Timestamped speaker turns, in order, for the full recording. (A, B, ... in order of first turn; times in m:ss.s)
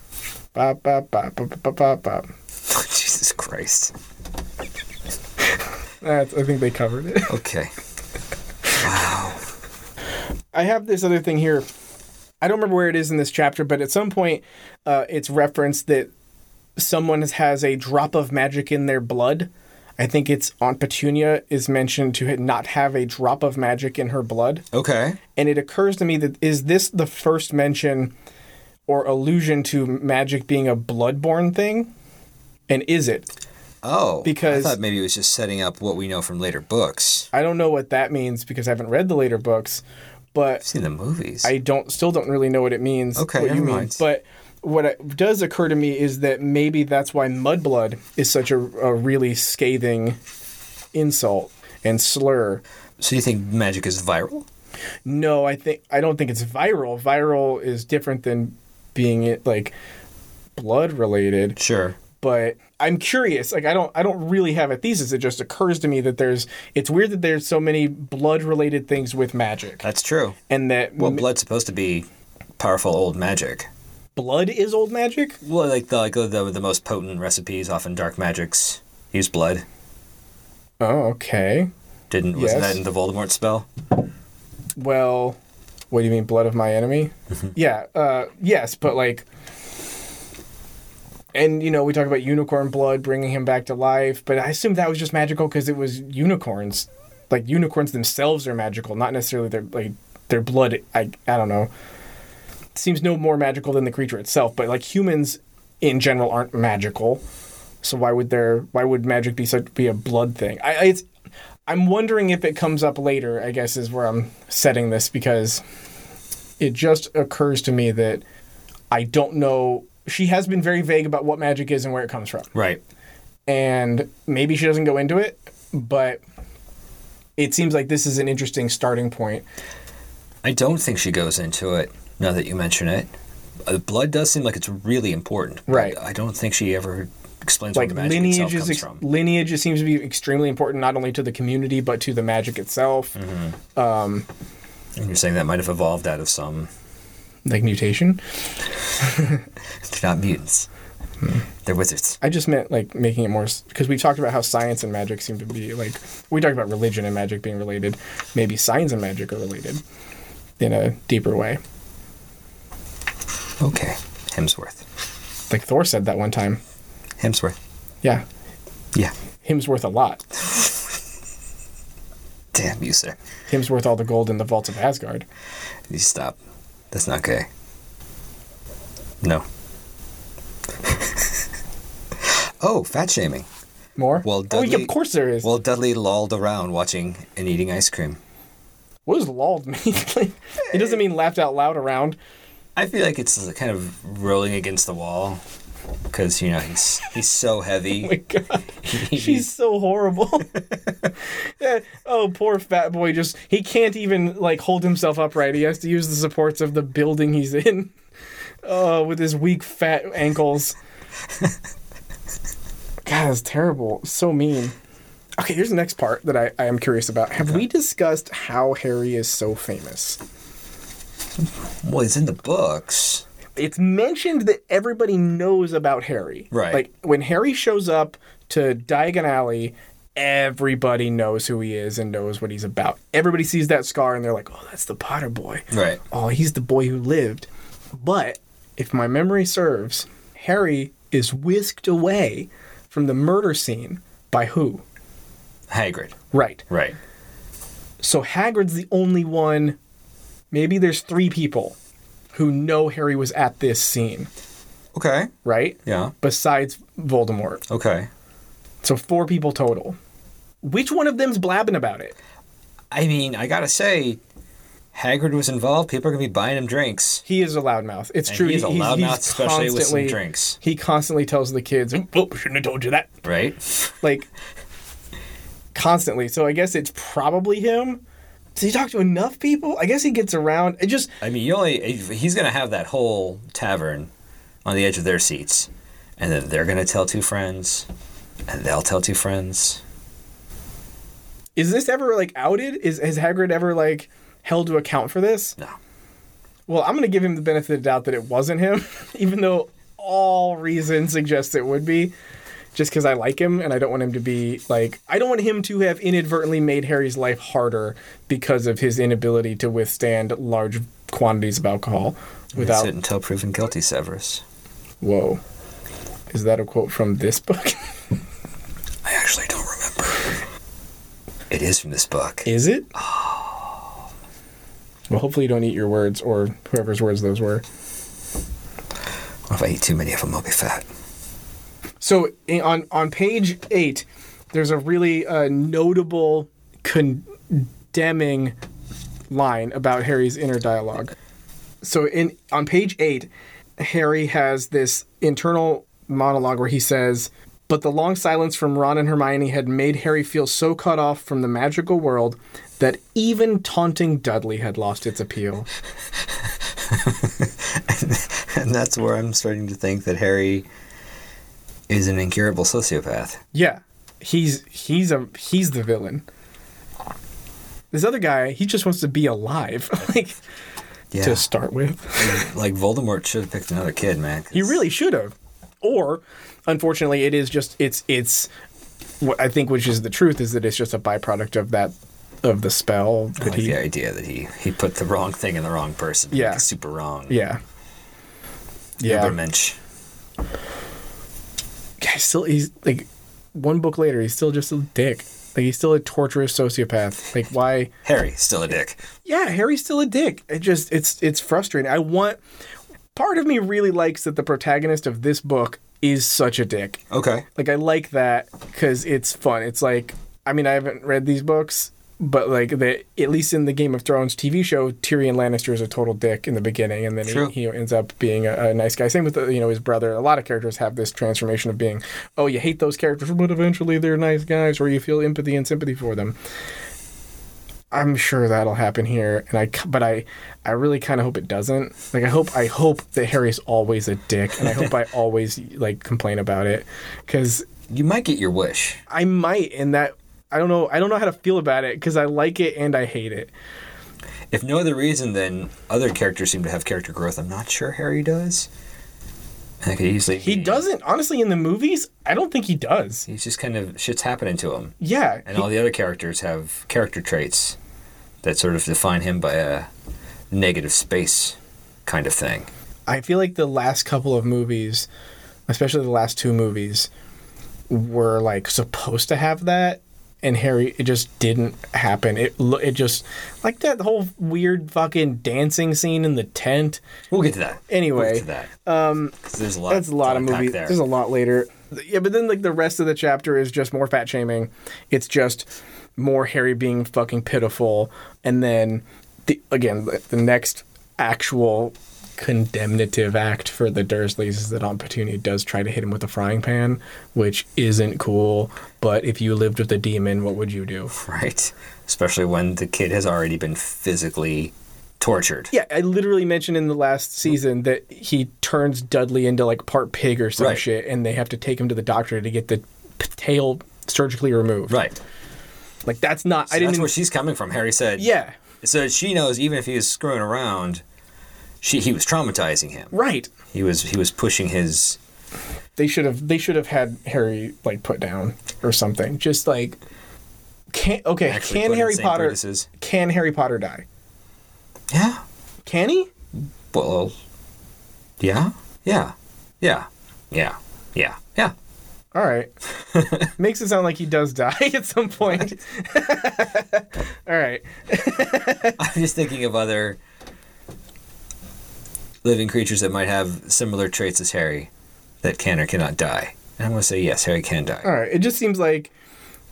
0:00.6-0:02.3 A
0:02.7-0:03.9 B
0:06.0-0:07.4 A
0:07.3-0:07.7 B
0:08.8-0:09.4 B
0:10.5-0:11.7 A
0:12.4-0:16.1 A
0:16.8-0:24.6 A
0:24.7-0:25.2 B
0:25.4-0:28.1 A
0:28.9-0:31.9 A
0:32.7-0:33.3 A
0:33.8-0:37.3 B
0:34.2-0:34.8 A
0:37.3-0:39.8 A
0:40.3-0:40.7 A
0:40.6-0:41.5 B
0:41.4-0:50.2 A
0:43.2-0:44.0 B
0:50.9-0:52.6 A
0:53.0-0:54.5 B
0:55.1-0:59.7 A
1:00.6-1:01.6 A
1:01.6-1:02.0 B
1:02.2-1:09.8 A
1:09.8-1:10.4 B
1:10.5-1:11.2 A
1:11.0-1:12.1 B
1:12.6-1:13.7 B
1:14.2-1:15.4 A
1:15.4-1:19.6 B
1:20.8-1:21.7 A
1:22.1-1:23.7 B
1:22.4-1:22.8 A
1:24.8-1:25.4 A
1:25.9-1:29.3 A
1:31.4-1:41.7 A
1:42.8-1:47.2 A
1:47.8-1:51.1 A
1:51.7-1:55.6 A
1:56.6-1:58.2 A
1:58.9-2:02.5 A
2:02.5-2:02.8 B
2:03.5-2:06.2 A
2:07.4-2:09.4 A
2:10.4-2:13.1 B
2:13.7-2:19.0 B
2:15.7-2:16.0 A
2:17.8-2:23.2 A
2:23.2-2:23.6 B
2:23.8-2:24.3 A
2:25.0-2:26.7 B
2:27.5-2:28.2 A
2:29.0-2:29.4 A
2:29.8-2:30.7 B
2:31.7-2:32.2 B
2:32.2-2:39.8 A
2:40.6-2:41.6 A
2:43.6-2:44.8 B
2:45.5-2:46.6 A
2:47.2-2:47.6 B
2:49.4-2:50.2 A
2:50.4-2:50.8 B
2:52.5-2:53.2 B
2:53.5-2:55.2 A
2:55.9-2:56.4 B
2:56.9-2:57.5 B
3:00.8-3:01.3 B
3:02.6-3:03.5 B
3:04.0-3:05.5 A
3:04.2-3:08.2 B
3:09.1-3:12.2 A
3:10.7-3:11.0 B
3:12.8-3:15.4 B
3:16.1-3:18.1 B
3:18.0-3:20.6 A
3:18.8-3:19.5 B
3:21.6-3:27.9 A
3:28.6-3:30.8 A
3:33.1-3:34.8 A
3:35.4-3:40.2 A
3:41.8-3:43.2 B
3:43.6-4:04.8 A
3:46.5-3:46.8 B
3:55.7-3:56.0 B
4:05.7-4:06.2 B
4:06.3-4:06.6 A
4:06.7-4:07.0 B
4:08.0-4:09.8 A
4:10.5-4:11.8 A
4:12.3-4:14.3 A
4:14.9-4:15.3 B
4:15.4-4:17.6 A
4:15.8-4:16.2 B
4:17.7-4:18.1 B
4:18.8-4:20.0 A
4:20.6-4:22.2 A
4:22.9-4:24.2 B
4:24.9-4:27.2 B
4:27.3-4:33.1 A
4:28.3-4:30.6 B
4:33.2-4:34.0 B
4:34.0-4:34.3 A
4:35.7-4:38.0 A
4:38.6-4:41.1 A
4:41.2-4:44.1 B
4:44.6-4:47.9 B
4:48.5-4:49.8 B
4:51.6-4:55.6 A
4:56.7-5:02.1 A
5:02.8-5:12.9 A
5:12.6-5:14.4 B
5:15.0-5:15.4 A
5:16.3-5:17.9 A
5:19.0-5:20.4 B
5:21.5-5:23.8 B
5:22.5-5:22.9 A
5:25.1-5:27.6 A
5:29.5-5:30.9 B
5:32.0-5:38.6 A
5:39.3-5:41.1 A
5:41.8-5:55.7 A
5:56.4-6:00.7 B
6:01.9-6:03.4 B
6:03.5-6:06.2 A
6:07.9-6:10.4 A
6:11.1-6:11.4 B
6:11.2-6:12.5 A
6:12.2-6:14.8 B
6:14.5-6:18.5 A
6:19.2-6:23.8 A
6:23.4-6:27.4 B
6:26.3-6:26.6 A
6:27.3-6:27.6 A
6:29.0-6:29.4 A
6:29.0-6:29.8 B
6:32.0-6:37.9 A
6:38.0-6:39.0 B
6:39.2-6:42.4 A
6:43.2-6:47.0 A
6:47.1-6:47.4 B
6:47.6-7:06.4 A
6:57.2-6:57.5 B
7:07.9-7:17.7 A
7:17.9-7:19.0 B
7:19.1-7:23.5 A
7:24.5-7:28.7 B
7:29.8-7:30.8 B
7:30.4-7:33.3 A
7:33.3-7:35.0 B
7:35.0-7:35.7 A
7:35.5-7:37.8 B
7:38.4-7:39.9 B
7:40.5-7:42.7 B
7:43.1-7:45.1 A
7:45.7-7:47.1 A
7:47.9-7:57.0 A
7:57.3-7:58.7 B
7:57.9-7:59.4 A
7:59.4-8:01.0 B
7:59.9-8:21.1 A
8:21.1-8:25.7 B
8:25.7-8:35.0 A
8:30.6-8:30.8 B
8:34.9-8:35.2 B
8:36.1-8:37.1 A
8:36.7-8:38.3 B
8:38.2-8:38.6 A
8:38.8-8:41.0 B
8:41.8-8:43.1 B
8:43.1-8:43.5 A
8:43.7-8:45.2 B
8:46.0-8:50.0 A
8:50.9-8:54.0 A
8:51.5-8:52.9 B
8:55.1-8:55.4 B
8:55.9-8:56.3 A
8:56.9-8:57.4 B
8:58.4-9:01.7 B
9:02.3-9:02.7 A
9:03.1-9:03.5 B
9:03.6-9:09.0 A
9:09.0-9:10.2 B
9:12.4-9:14.9 B
9:15.4-9:18.1 B
9:18.0-9:19.1 A